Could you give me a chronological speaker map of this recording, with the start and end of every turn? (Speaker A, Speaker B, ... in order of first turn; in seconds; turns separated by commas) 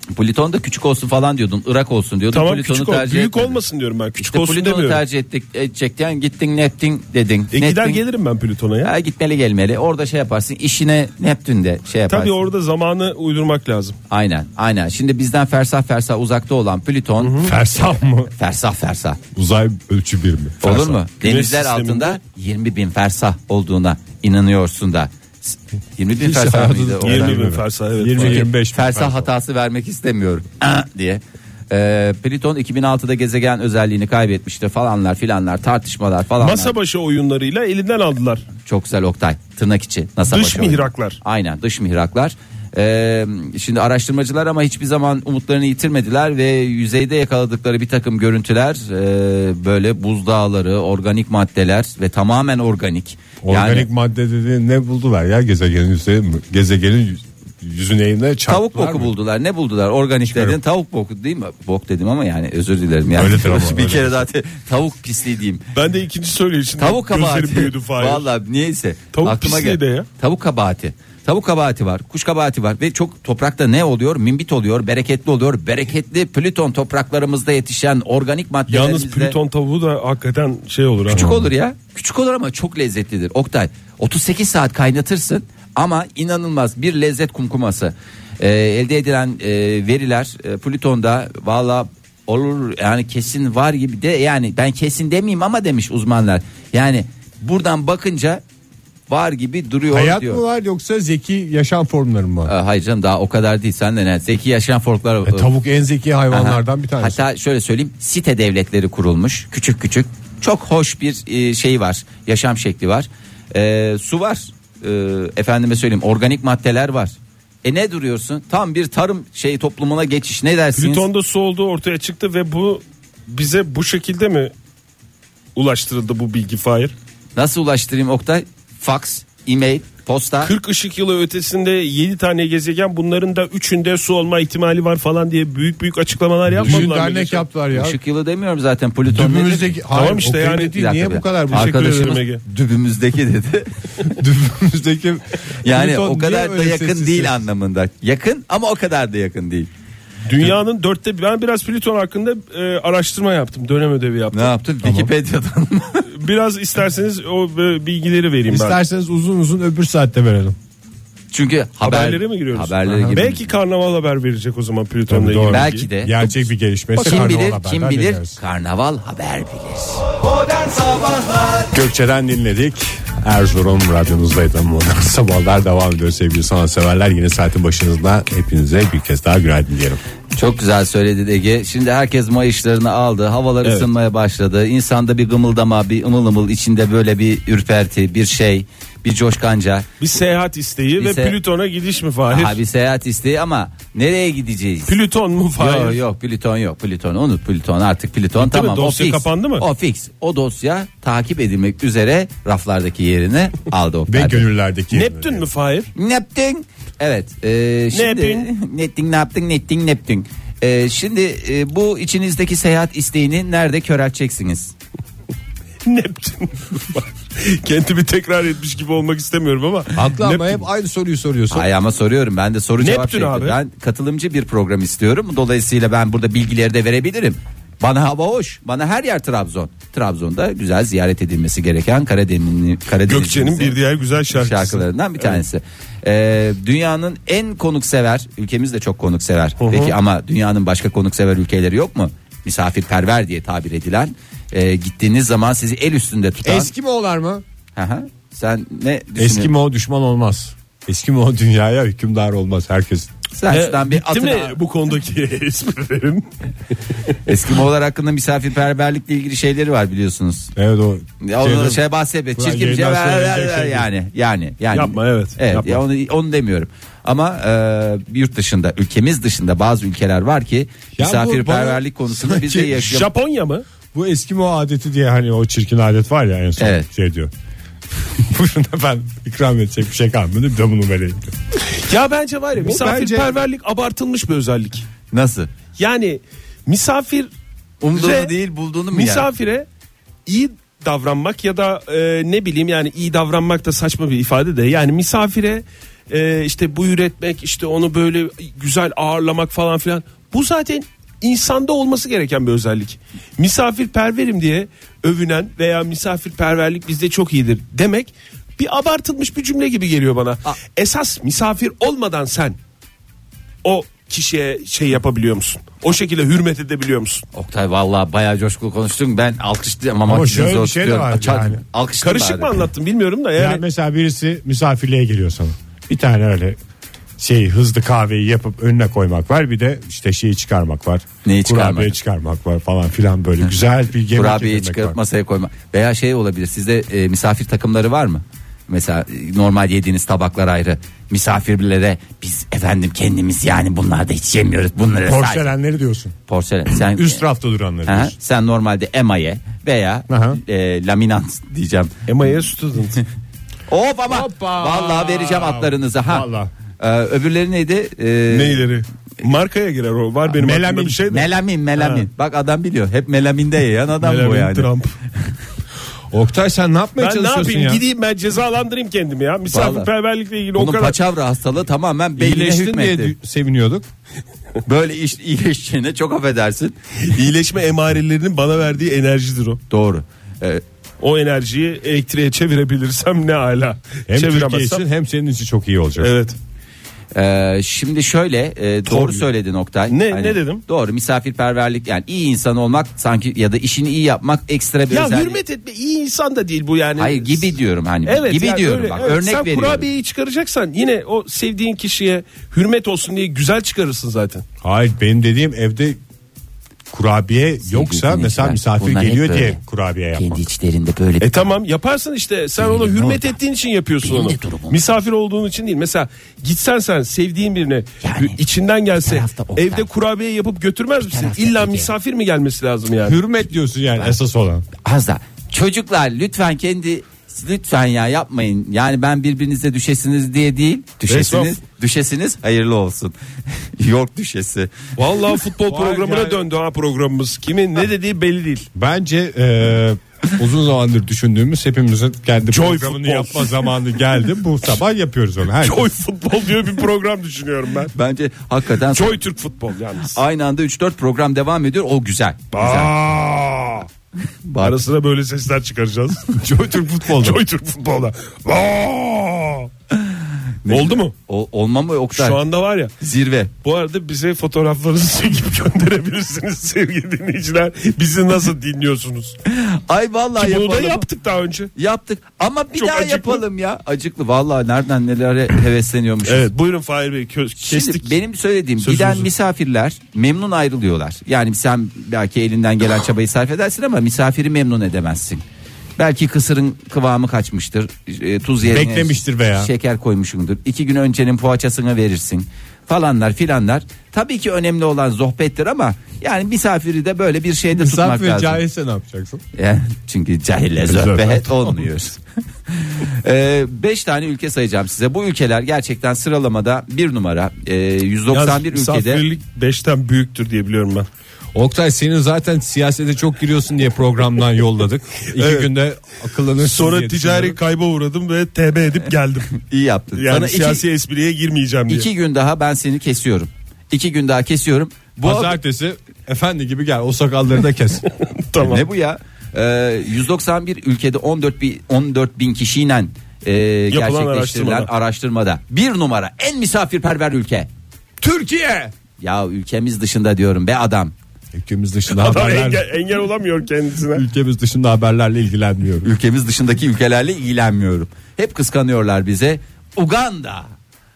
Speaker A: 0.1-3.6, Speaker B: 2.3-5.0, Speaker A: 4.2-8.0, Speaker B: 7.5-8.9, Speaker A: 8.8-12.3, Speaker B: 12.1-14.0, Speaker A: 14.1-19.2, Speaker B: 17.2-17.5, Speaker C: 17.4-18.3, Speaker C: 19.3-21.0, Speaker A: 20.6-27.4, Speaker B: 21.2-22.2, Speaker C: 26.2-29.3, Speaker B: 27.0-28.5, Speaker A: 28.1-36.7, Speaker B: 36.4-38.5, Speaker A: 38.6-53.9, Speaker B: 40.3-41.2, Speaker C: 53.4-59.1, Speaker A: 58.5-65.6, Speaker C: 60.3-60.6, Speaker C: 63.1-64.2, Speaker B: 65.7-68.2, Speaker A: 66.8-79.4, Speaker B: 69.1-70.1, Speaker B: 78.7-81.2, Speaker A: 81.1-98.4, Speaker C: 81.1-81.5, Speaker A: 99.1-100.4, Speaker C: 99.9-102.5, Speaker A: 102.5-105.5, Speaker C: 105.2-107.2, Speaker A: 106.3-121.1, Speaker B: 120.8-124.5, Speaker B: 125.5-126.9, Speaker A: 127.3-130.5, Speaker B: 130.4-137.4, Speaker C: 136.6-138.0, Speaker A: 136.6-136.9, Speaker A: 137.7-139.8, Speaker C: 139.1-142.2, Speaker B: 139.9-140.8, Speaker A: 140.7-143.7, Speaker B: 141.5-142.4, Speaker C: 144.2-147.4, Speaker A: 145.6-149.7, Speaker B: 150.2-154.5, Speaker A: 154.3-156.1, Speaker C: 154.8-155.1, Speaker B: 156.1-158.8, Speaker C: 158.5-160.6, Speaker A: 161.3-163.4, Speaker B: 161.8-165.9, Speaker C: 162.9-163.2, Speaker C: 165.1-168.4, Speaker A: 165.5-166.4, Speaker A: 167.0-170.2, Speaker B: 167.0-167.3, Speaker C: 171.7-180.0, Speaker A: 180.3-189.9, Speaker B: 183.6-183.9, Speaker B: 190.0-192.6, Speaker A: 191.0-191.4, Speaker A: 192.3-195.0, Speaker B: 194.9-196.0, Speaker A: 195.6-204.5, Speaker B: 198.4-199.7, Speaker C: 204.1-205.4, Speaker B: 204.9-205.9, Speaker A: 205.9-214.7, Speaker B: 207.9-208.5, Speaker B: 215.8-220.6, Speaker C: 219.9-221.7, Speaker A: 221.5-233.8, Speaker B: 222.8-223.6, Speaker B: 233.1-235.4, Speaker A: 234.3-246.7, Speaker B: 239.6-239.9, Speaker C: 246.4-247.4, Speaker A: 247.8-249.5, Speaker C: 249.2-253.1, Speaker A: 253.3-254.6, Speaker B: 253.5-256.2, Speaker A: 257.2-260.5, Speaker C: 260.6-261.8, Speaker A: 261.2-273.1, Speaker C: 262.4-263.9, Speaker B: 264.7-265.8, Speaker C: 271.0-272.9, Speaker B: 272.7-273.6, Speaker C: 273.9-277.3, Speaker A: 276.6-276.9, Speaker C: 278.2-281.3, Speaker B: 281.7-284.9, Speaker C: 282.6-283.3, Speaker A: 285.1-285.5, Speaker B: 285.8-287.3, Speaker A: 287.8-289.3, Speaker B: 287.9-288.3, Speaker B: 288.9-289.6, Speaker B: 290.2-312.6, Speaker B: 313.6-317.2, Speaker A: 317.3-322.6, Speaker C: 320.1-321.6, Speaker B: 322.0-323.6, Speaker C: 323.4-326.6, Speaker C: 327.2-335.0, Speaker A: 331.2-331.9, Speaker A: 334.1-345.5, Speaker C: 345.0-346.1, Speaker A: 346.3-347.2, Speaker C: 346.7-348.1, Speaker A: 347.9-351.9, Speaker C: 350.1-350.4, Speaker B: 352.1-353.0, Speaker A: 353.7-356.3, Speaker C: 354.1-356.5, Speaker A: 356.8-358.6, Speaker B: 358.3-362.1, Speaker C: 360.3-361.1, Speaker A: 361.1-364.7, Speaker B: 364.0-364.9, Speaker C: 366.1-367.8, Speaker B: 367.0-371.0, Speaker A: 369.5-369.9, Speaker A: 370.6-373.1, Speaker C: 372.2-373.9, Speaker A: 374.6-376.8, Speaker B: 377.0-379.6, Speaker A: 379.7-380.6, Speaker B: 381.0-384.8, Speaker C: 384.1-386.1, Speaker B: 386.0-386.4, Speaker A: 387.1-395.4, Speaker B: 388.9-389.2, Speaker B: 389.9-390.6, Speaker B: 394.9-397.5, Speaker A: 397.0-399.9, Speaker B: 398.1-404.4, Speaker C: 404.6-406.0, Speaker C: 406.9-410.4, Speaker A: 407.6-409.6, Speaker A: 410.1-411.5, Speaker B: 411.2-423.2, Speaker A: 412.6-413.4, Speaker A: 414.0-414.8, Speaker A: 418.0-418.4, Speaker A: 419.0-419.9, Speaker A: 421.0-421.9, Speaker C: 423.0-424.6, Speaker A: 424.8-433.1, Speaker B: 431.1-431.6, Speaker A: 433.8-434.7, Speaker B: 435.0-438.7, Speaker C: 435.7-436.4, Speaker C: 438.7-445.9, Speaker B: 442.5-443.7, Speaker B: 445.6-447.9, Speaker A: 447.9-449.2, Speaker B: 448.8-450.2, Speaker A: 450.0-452.9, Speaker B: 452.5-453.9, Speaker A: 454.4-454.8, Speaker B: 454.6-456.4, Speaker C: 456.3-457.4, Speaker B: 457.1-459.7, Speaker A: 459.9-462.4, Speaker B: 460.7-461.1, Speaker B: 462.1-462.9, Speaker A: 463.0-463.5, Speaker B: 463.6-469.4, Speaker A: 469.4-471.0, Speaker B: 470.4-471.7, Speaker A: 471.7-476.5, Speaker B: 472.7-473.4, Speaker B: 476.2-478.2, Speaker A: 477.6-485.4, Speaker B: 478.8-479.3, Speaker A: 486.0-498.6, Speaker C: 488.6-489.7, Speaker C: 497.7-499.4, Speaker A: 499.5-509.2, Speaker C: 500.8-501.9, Speaker B: 508.3-511.1, Speaker C: 511.5-517.6, Speaker B: 515.3-515.7, Speaker B: 516.6-519.5, Speaker A: 519.5-520.8, Speaker B: 520.1-522.1, Speaker A: 521.9-525.6, Speaker C: 525.2-528.0, Speaker B: 528.1-528.9, Speaker A: 528.6-537.7, Speaker B: 533.9-534.9, Speaker C: 538.2-538.9, Speaker A: 539.2-541.1, Speaker C: 541.5-542.9, Speaker B: 542.1-544.2, Speaker C: 544.1-546.1, Speaker A: 546.0-550.7